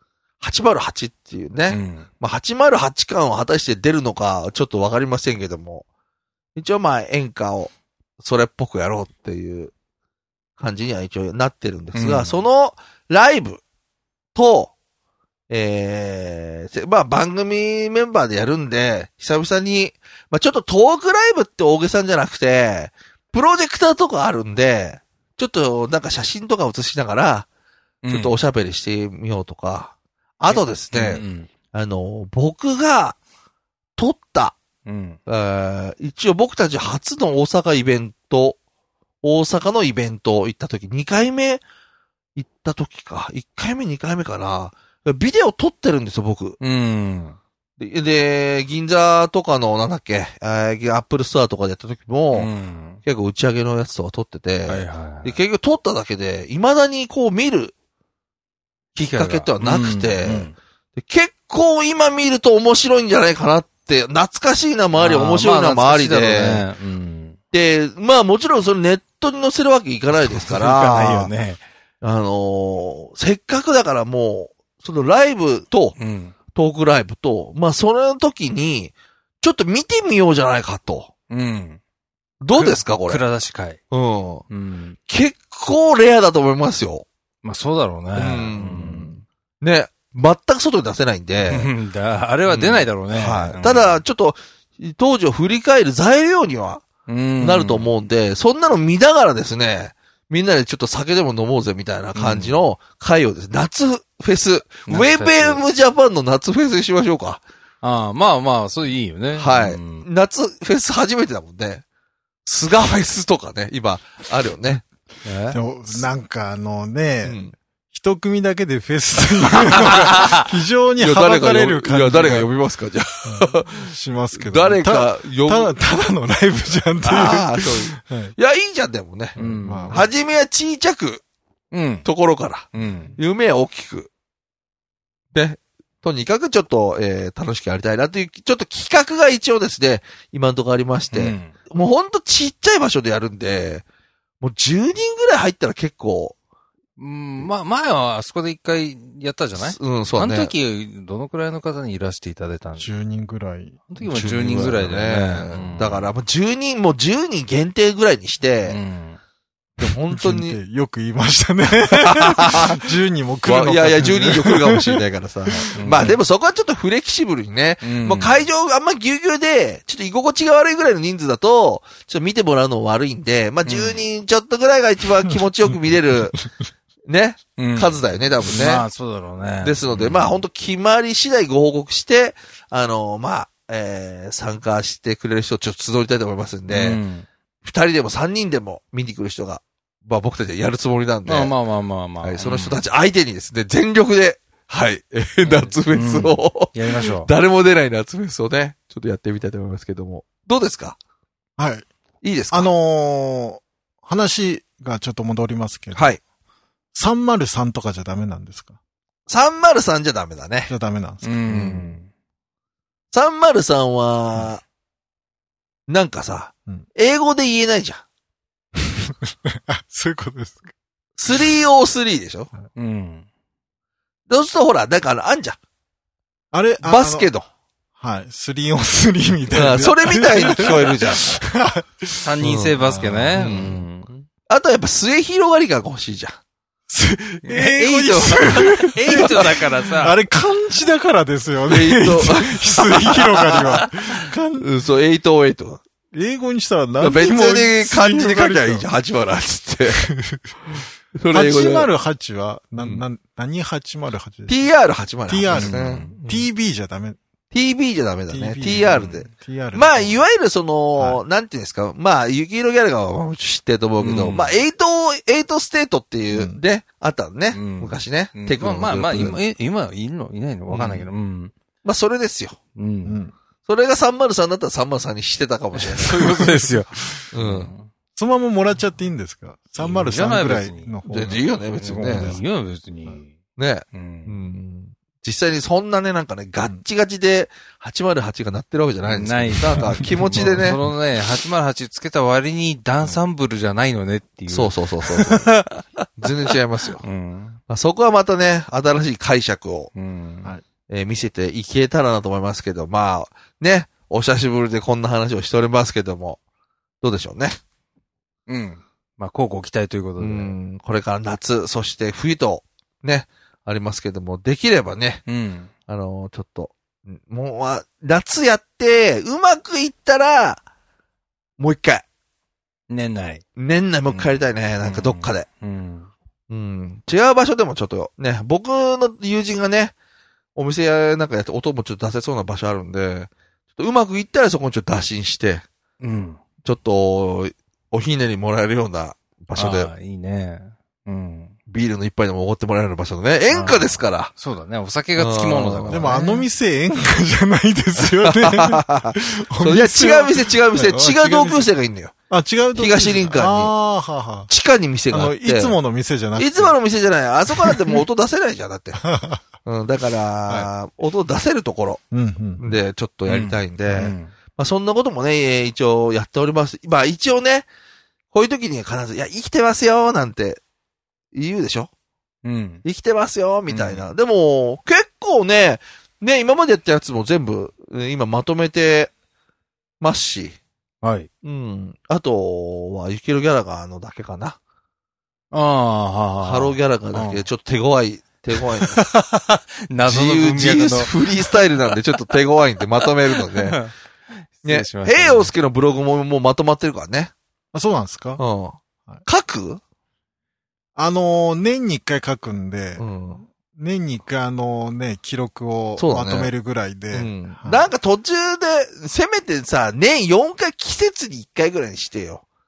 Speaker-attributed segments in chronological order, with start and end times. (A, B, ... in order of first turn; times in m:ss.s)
0:00.4-0:05.8 A
0:01.7-0:02.0 B
0:06.6-0:09.7 A
0:10.6-0:13.6 A
0:11.9-0:12.4 B
0:14.3-0:14.7 A
0:15.5-0:27.5 A
0:28.0-0:28.3 B
0:28.1-0:33.2 A
0:30.5-0:31.5 B
0:34.0-0:34.6 A
0:34.8-0:35.2 B
0:35.3-0:38.6 A
0:39.2-0:41.6 A
0:42.4-0:46.6 A
0:46.6-0:47.4 B
0:47.8-0:52.5 A
0:52.3-0:53.0 B
0:53.0-0:57.7 A
0:54.7-0:55.4 B
0:59.0-1:00.5 B
0:59.0-1:06.6 A
1:04.9-1:07.4 B
1:07.5-1:11.3 A
1:10.2-1:11.6 B
1:12.0-1:16.0 A
1:16.0-1:16.3 B
1:16.5-1:21.1 A
1:21.3-1:21.8 B
1:22.4-1:23.2 A
1:22.5-1:23.8 B
1:23.9-1:24.4 A
1:24.5-1:25.0 B
1:25.1-1:27.0 A
1:27.4-1:29.1 B
1:28.1-1:31.7 A
1:31.4-1:34.0 B
1:32.5-1:36.8 A
1:37.1-1:37.9 B
1:37.4-1:47.4 A
1:42.1-1:42.6 B
1:44.9-1:45.6 B
1:47.8-1:50.1 B
1:49.4-1:51.8 A
1:52.4-1:54.8 A
1:55.2-1:55.6 B
1:55.5-1:57.4 C
1:57.2-1:57.5 A
1:57.9-2:02.5 C
1:59.8-2:00.4 A
2:01.0-2:05.8 A
2:03.2-2:08.3 C
2:07.0-2:09.4 A
2:09.4-2:10.0 B
2:09.4-2:10.1 C
2:09.9-2:11.2 A
2:11.7-2:12.1 B
2:12.0-2:14.1 A
2:12.7-2:13.2 B
2:15.3-2:23.8 A
2:21.1-2:21.5 B
2:24.4-2:26.3 A
2:27.0-2:32.9 B
2:29.6-2:30.5 A
2:32.8-2:33.9 C
2:33.9-2:36.1 B
2:34.0-2:38.8 A
2:38.7-2:39.2 B
2:39.8-2:40.6 A
2:40.1-2:45.0 C
2:42.0-2:42.8 A
2:43.4-2:56.4 A
2:45.6-2:46.1 C
2:45.8-2:46.1 B
2:47.8-2:48.5 B
2:53.6-2:54.0 B
2:57.1-2:58.8 A
2:57.6-3:00.4 B
2:59.6-3:07.0 A
3:06.7-3:07.2 B
3:07.6-3:11.5 A
3:11.2-3:12.8 B
3:12.2-3:21.0 A
3:15.4-3:17.3 B
3:21.6-3:21.8 C
3:22.2-3:22.7 A
3:22.5-3:26.2 C
3:25.9-3:26.2 A
3:26.9-3:28.8 C
3:29.3-3:30.7 A
3:30.7-3:32.0 C
3:31.2-3:32.1 B
3:33.1-3:34.6 A
3:35.9-3:38.0 A
3:39.6-3:40.7 C
3:41.2-3:42.5 A
3:42.8-3:43.2 B
3:44.3-3:45.6 A
3:46.5-3:47.3 C
3:46.8-3:47.5 A
3:48.0-3:53.6 C
3:49.5-3:51.4 A
3:52.2-3:54.2 B
3:52.4-3:52.8 A
3:53.3-3:53.8 A
3:54.5-3:56.4 A
3:56.9-4:04.7 C
3:57.4-3:57.9 B
3:57.8-3:59.3 A
3:58.9-4:00.2 B
4:01.7-4:03.9 A
4:04.6-4:05.8 A
4:06.1-4:08.9 C
4:07.0-4:10.0 A
4:09.9-4:10.5 C
4:11.2-4:11.9 A
4:11.3-4:14.7 C
4:12.8-4:13.0 A
4:14.5-4:16.5 A
4:15.2-4:17.2 C
4:15.5-4:16.1 B
4:17.5-4:29.4 A
4:18.3-4:20.2 C
4:18.9-4:19.2 B
4:21.0-4:21.2 C
4:24.0-4:24.6 B
4:26.3-4:26.6 C
4:27.5-4:31.5 B
4:30.7-4:31.1 A
4:31.8-4:32.6 A
4:32.8-4:33.2 B
4:33.0-4:33.3 C
4:33.6-4:36.4 A
4:35.7-4:37.9 B
4:36.3-4:36.6 C
4:37.3-4:37.7 A
4:38.2-4:42.4 C
4:39.8-4:43.3 B
4:41.0-4:42.4 A
4:43.6-4:50.8 A
4:43.9-4:44.3 B
4:49.0-4:56.3 B
4:49.8-4:50.7 C
4:54.5-4:55.6 A
4:56.2-4:57.0 A
4:57.0-4:57.6 B
4:57.7-4:59.9 A
4:59.9-5:00.5 B
5:00.9-5:06.4 A
5:07.0-5:07.6 A
5:08.5-5:10.5 B
5:10.2-5:15.2 A
5:15.2-5:15.7 B
5:15.9-5:20.6 A
5:21.6-5:22.0 A
5:22.9-5:23.4 B
5:23.6-5:25.5 A
5:24.1-5:26.1 B
5:26.5-5:29.9 A
5:30.5-5:35.6 A
5:36.0-5:36.4 B
5:36.6-5:39.9 A
5:39.5-5:41.5 B
5:41.7-5:44.3 A
5:43.5-5:46.4 B
5:45.2-5:46.2 A
5:45.9-5:51.7 C
5:48.0-5:52.1 A
5:52.3-5:54.5 C
5:52.7-5:53.7 A
5:54.5-5:55.8 A
5:55.1-5:56.7 C
5:56.4-5:59.0 A
5:57.6-5:58.0 C
5:58.9-5:59.4 C
5:59.6-6:02.0 A
6:02.1-6:02.8 C
6:02.6-6:07.7 A
6:03.2-6:04.3 B
6:03.9-6:04.1 C
6:08.3-6:10.6 A
6:11.3-6:11.9 A
6:12.4-6:12.8 B
6:12.8-6:19.1 A
6:13.7-6:14.0 B
6:20.0-6:20.6 A
6:21.0-6:21.3 B
6:21.4-6:24.6 A
6:25.5-6:27.4 B
6:26.4-6:29.0 A
6:28.9-6:31.2 B
6:30.0-6:33.8 A
6:33.0-6:33.9 B
6:34.5-6:35.5 B
6:34.6-6:37.3 A
6:37.7-6:38.4 C
6:38.4-6:39.8 A
6:41.0-6:47.9 C
6:43.0-6:43.4 A
6:46.0-6:46.5 A
6:47.1-6:52.4 A